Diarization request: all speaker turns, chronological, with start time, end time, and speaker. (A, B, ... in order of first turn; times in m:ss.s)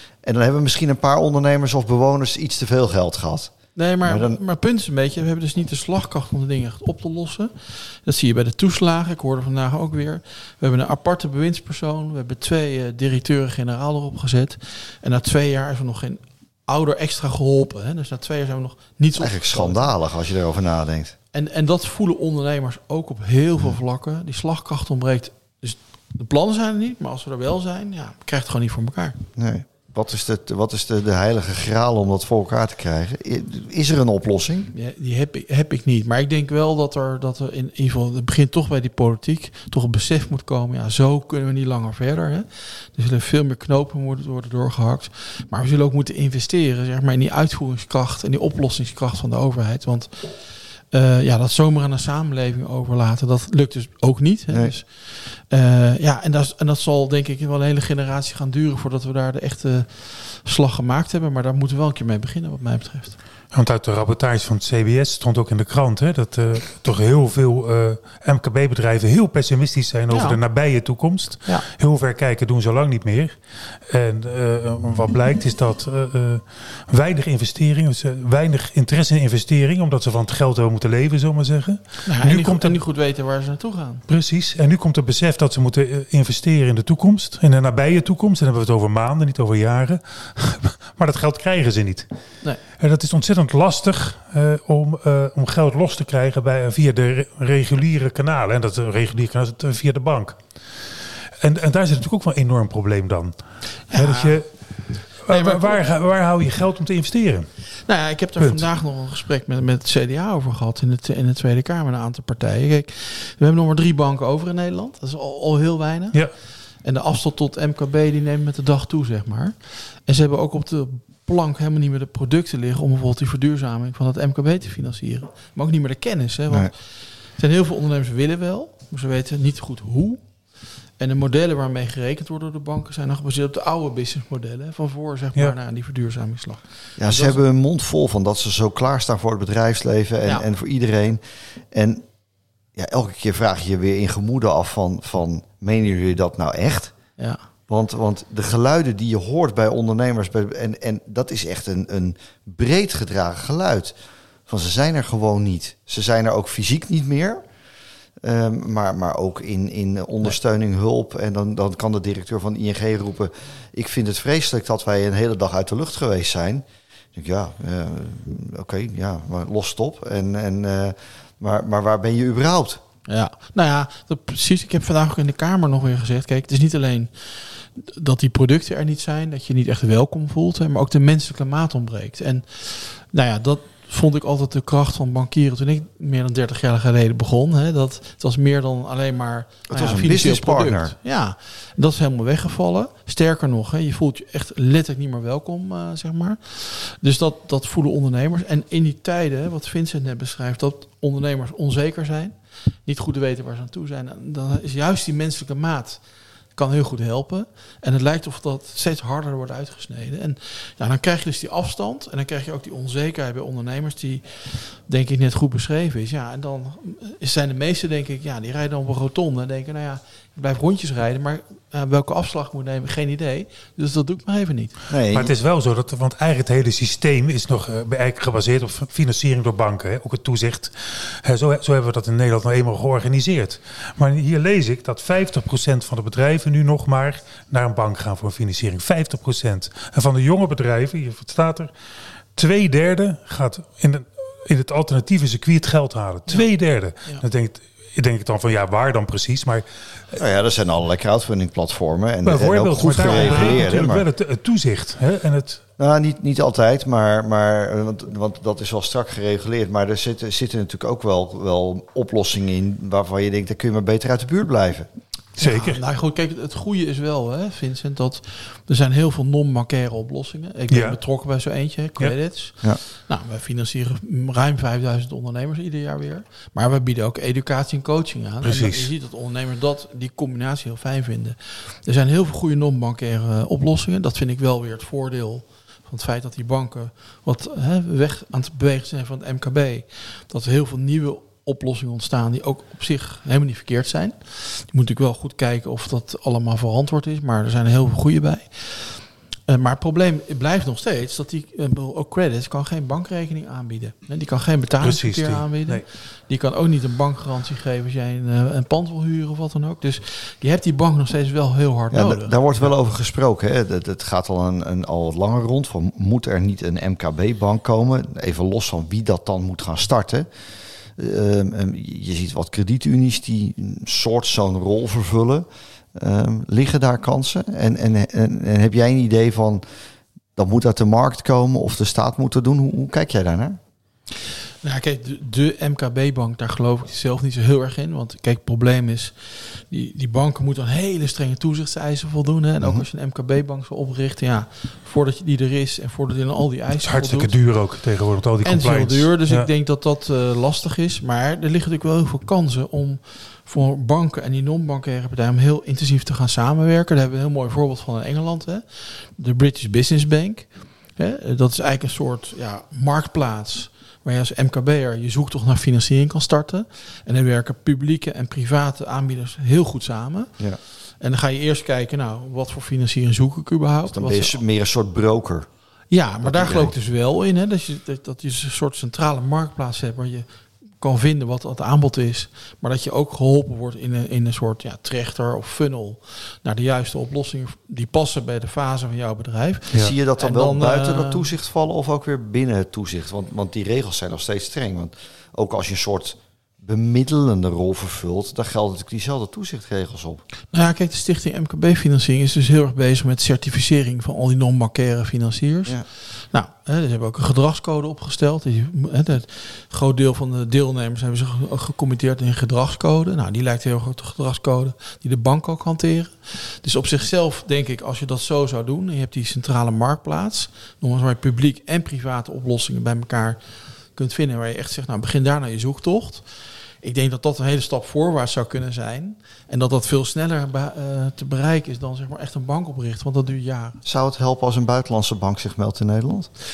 0:00.2-0:03.5 A
0:03.7-0:19.9 B
0:04.0-0:04.4 A
0:19.2-0:21.1 A
0:21.3-0:29.2 B
0:29.4-0:34.7 A
0:34.7-1:03.2 B
1:03.5-1:13.4 C
1:10.1-1:10.4 B
1:13.9-1:22.8 C
1:22.0-1:24.0 B
1:24.1-1:32.1 C
1:32.8-1:47.5 C
1:43.9-1:44.4 B
1:45.3-1:45.8 B
1:47.8-2:10.2 B
2:11.0-2:17.4 B
2:17.0-2:21.2 A
2:21.7-2:22.0 A
2:22.8-2:26.9 A
2:27.2-2:27.4 B
2:27.7-2:33.9 A
2:34.5-2:37.4 A
2:38.2-2:46.6 A
2:47.1-2:52.8 A
2:53.1-3:22.3 B
3:09.7-3:10.9 A
3:22.8-3:26.0 B
3:26.5-3:44.7 B
3:44.9-3:45.3 A
3:45.1-4:01.7 C
4:02.4-4:10.2 C
4:10.1-4:14.0 A
4:12.2-4:15.6 C
4:12.9-4:13.9 B
4:15.8-4:24.9 A
4:25.4-4:25.8 C
4:25.4-5:12.4 B
4:30.7-4:31.0 C
4:38.4-4:38.9 C
5:04.8-5:05.8 C
5:11.9-5:20.3 A
5:21.0-5:29.6 A
5:30.4-5:33.6 A
5:34.6-5:47.4 B
5:46.8-5:49.5 C
5:48.4-6:10.4 B
6:11.0-6:14.4 B
6:13.9-6:15.5 A
6:15.9-6:20.2 B
6:16.2-6:16.7 A
6:20.8-6:31.3 B
6:29.7-6:40.2 A
6:40.5-7:03.4 B
7:03.9-7:06.2 B
7:06.8-7:13.8 B
7:13.8-7:16.3 A